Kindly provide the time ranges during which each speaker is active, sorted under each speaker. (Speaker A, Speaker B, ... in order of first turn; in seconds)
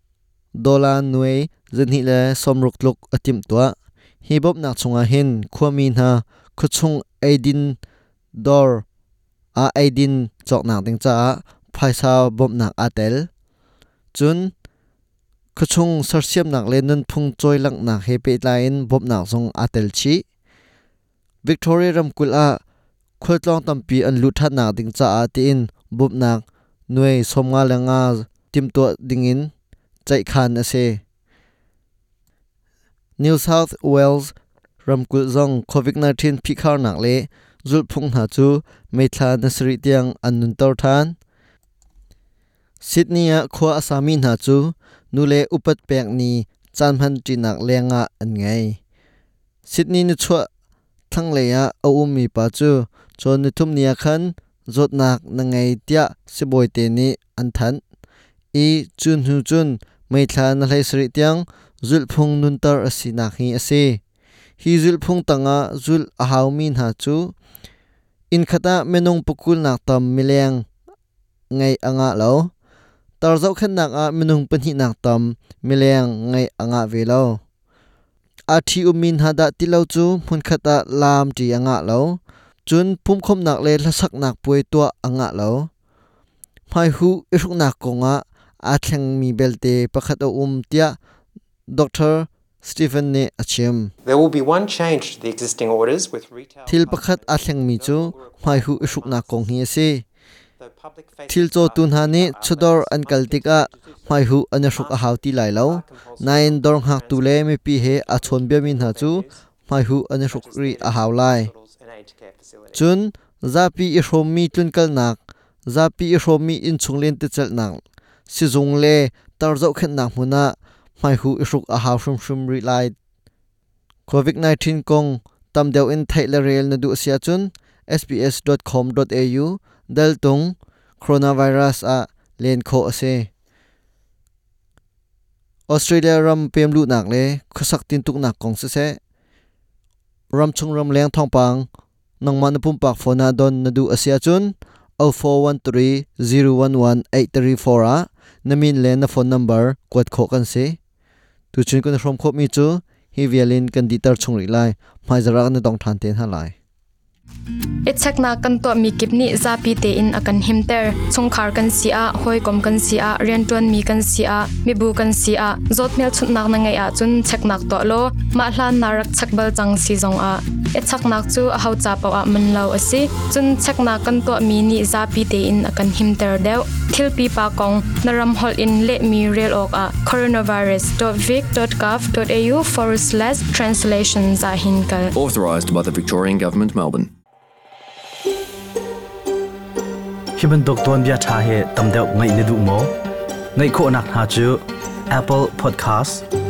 Speaker A: 0.6-7.8, 8.4-8.8, 9.6-13.3, 14.1-14.5, 15.6-20.2, 21.4-22.6, 23.2-29.5, 30.1-31.0, 33.2-34.3, 34.9-41.2, 42.8-48.8, 49.7-50.5, 51.1-57.8, 58.5-64.0, 64.6-67.3, 68.3-70.7, 71.5-72.5, 73.2-77.4, 78.5-85.7, 86.7-91.0, 91.7-93.9, 96.7-100.0, 101.3-111.5, 112.7-123.0, 124.1-133.3, 135.7-139.0, 140.3-141.7, 142.2-150.8, 151.5-156.5
Speaker B: 94.0-99.6, 100.6-109.5, 110.3-112.9
Speaker C: 157.9-185.1
Speaker D: 185.2-187.1
Speaker E: 190.4-192.9, 193.6-196.2